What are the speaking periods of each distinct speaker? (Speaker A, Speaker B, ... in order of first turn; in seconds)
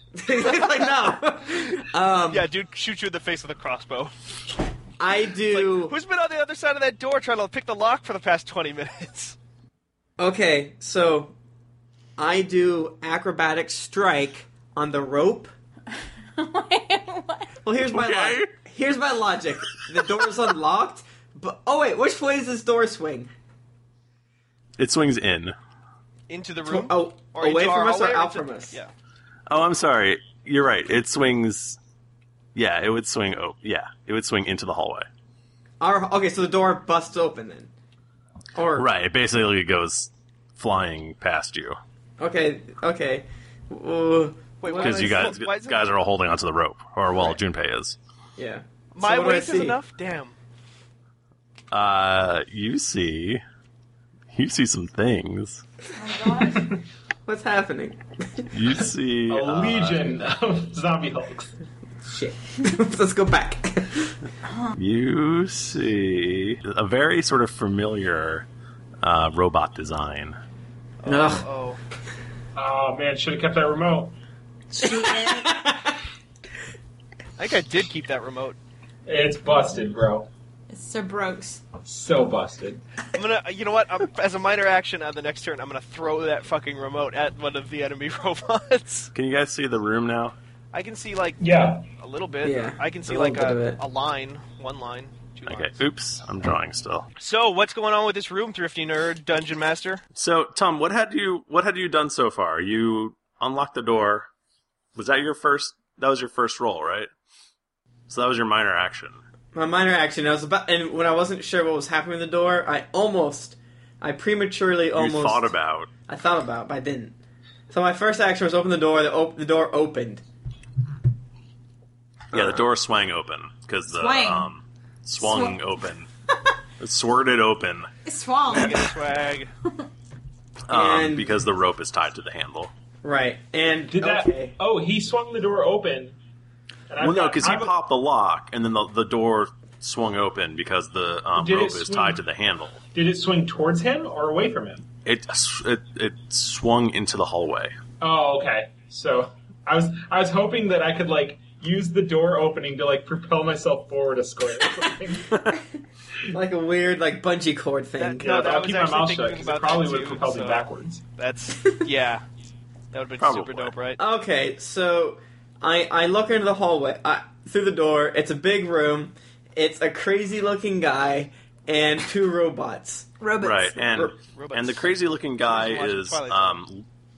Speaker A: 0.2-2.5, 5.0-6.0, 10.2-11.3, 12.2-15.5, 17.6-23.3, 26.6-28.8, 35.8-37.7, 38.5-38.9, 42.2-45.3, 47.1-47.4, 48.4-49.8, 57.2-58.5, 62.0-64.2, 71.0-71.5, 74.8-76.0, 92.4-93.8, 109.5-115.5, 116.1-117.1, 117.7-120.2, 130.7-131.3, 133.0-134.6, 156.3-158.3, 164.0-173.1
Speaker B: 2.3-4.1, 5.5-9.3, 26.3-28.9, 44.6-45.8, 48.9-50.3, 71.0-71.8, 77.4-78.6, 83.1-89.1, 90.7-95.8, 97.2-100.0, 128.5-129.5, 158.0-162.2, 162.9-164.0, 174.2-176.6
Speaker C: 16.4-17.5, 56.0-56.8, 64.5-64.7, 74.8-75.5, 80.7-81.6, 123.9-124.5, 125.2-125.6, 128.1-128.8, 173.2-173.8
Speaker D: 17.9-18.5, 24.8-25.5, 29.5-31.8, 32.5-35.1, 38.8-41.8, 44.8-48.0, 51.7-53.4, 54.3-55.6, 58.5-60.1, 64.7-68.5, 69.0-70.4, 89.1-90.3, 95.5-97.1, 100.1-104.3, 105.0-107.1, 108.1-109.2, 114.9-115.9, 122.3-126.1, 126.8-127.9, 130.7-132.7, 137.0-142.8, 145.0-147.7, 163.2-163.7, 173.4-176.8
Speaker E: 59.3-61.5, 72.5-74.2, 79.1-80.3, 81.8-82.8, 91.4-91.8, 133.9-136.2, 136.9-137.7, 141.3-142.2, 142.9-144.8, 148.0-155.4, 158.2-161.0